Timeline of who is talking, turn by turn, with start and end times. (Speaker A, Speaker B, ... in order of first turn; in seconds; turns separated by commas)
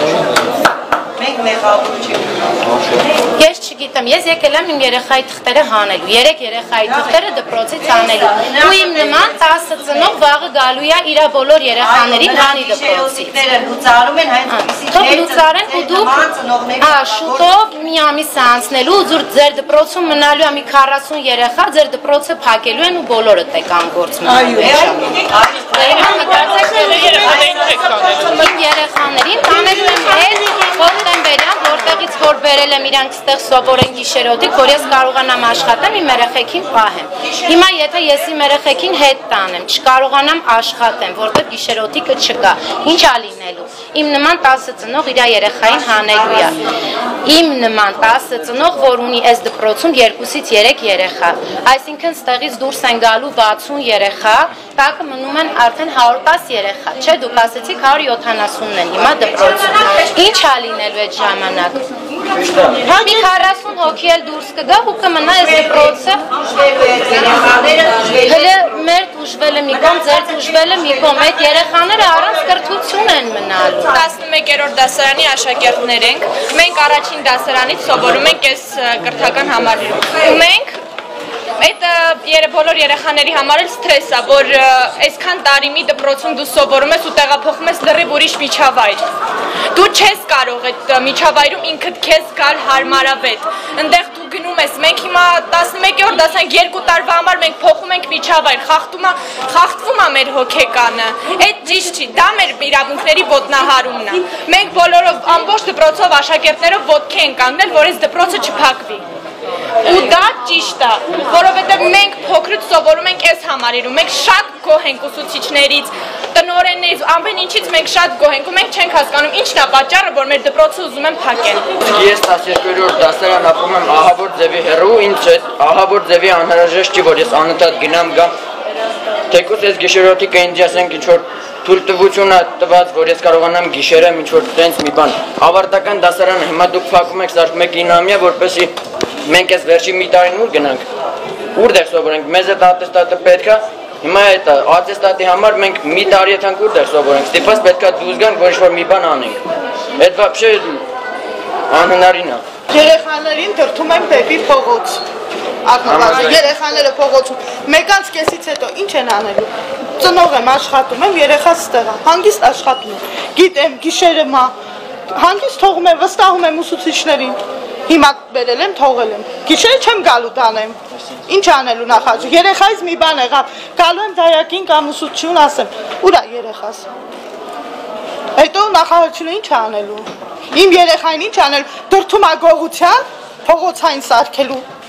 Speaker A: 1.2-2.2, Speaker B: 3.4-13.4, Speaker A: 12.1-16.8, Speaker B: 14.4-46.6, Speaker B: 47.2-61.9, Speaker B: 62.8-66.2, Speaker A: 66.6-68.2, Speaker B: 68.1-74.0, Speaker C: 73.9-80.7, Speaker C: 81.6-89.0, Speaker C: 89.7-109.0, Speaker C: 109.8-121.7, Speaker D: 121.9-128.3, Speaker D: 129.3-138.7, Speaker D: 139.2-140.8, Speaker D: 141.5-149.4, Speaker D: 150.0-150.8, Speaker D: 151.7-152.4, Speaker E: 152.7-155.0, Speaker E: 155.6-164.5, Speaker D: 155.8-156.5, Speaker E: 165.1-167.4, Speaker E: 167.9-170.8, Speaker E: 171.3-176.8, Speaker E: 178.3-184.6